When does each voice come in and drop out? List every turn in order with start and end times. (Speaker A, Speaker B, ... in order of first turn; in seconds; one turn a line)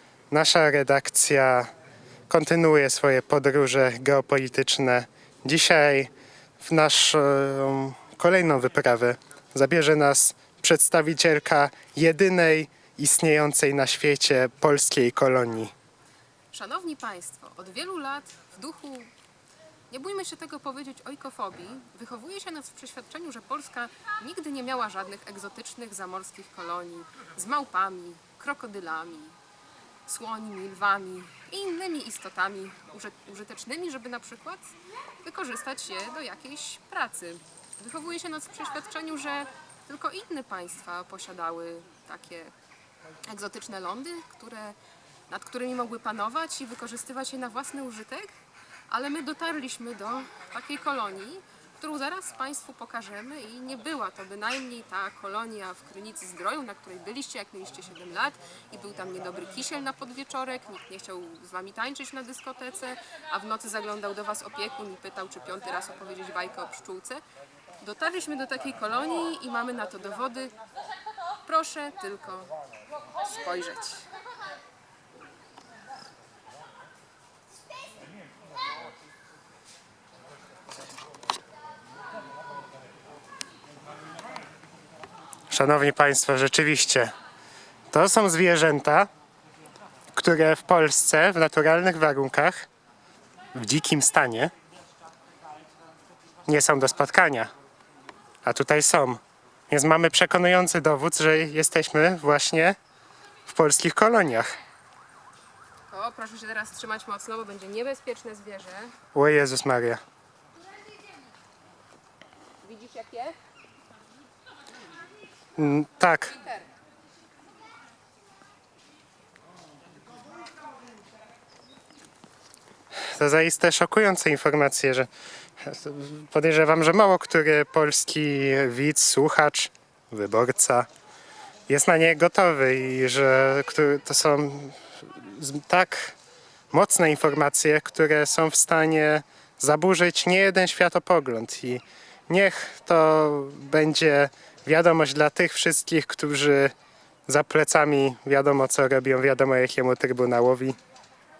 Speaker A: 0.3-1.7
Speaker A: 2.3-15.7
Speaker B: 16.5-19.1
Speaker B: 19.9-29.4
Speaker B: 30.1-42.5
Speaker B: 43.3-44.8
Speaker B: 45.3-48.3
Speaker B: 48.9-67.2
Speaker B: 67.8-70.5
Speaker B: 71.4-72.5
Speaker B: 73.2-74.1
Speaker A: 85.5-87.1
Speaker A: 87.9-89.1
Speaker A: 90.1-92.7
Speaker A: 93.5-94.5
Speaker A: 96.5-97.5
Speaker A: 98.4-102.8
Speaker A: 103.5-104.5
Speaker B: 105.9-109.0
Speaker A: 109.1-110.0
Speaker B: 112.6-113.4
Speaker A: 115.6-116.3
Speaker B: 116.3-116.7
Speaker A: 122.9-125.1
Speaker A: 125.6-130.9
Speaker A: 131.7-136.1
Speaker A: 136.7-146.7
Speaker A: 147.3-150.8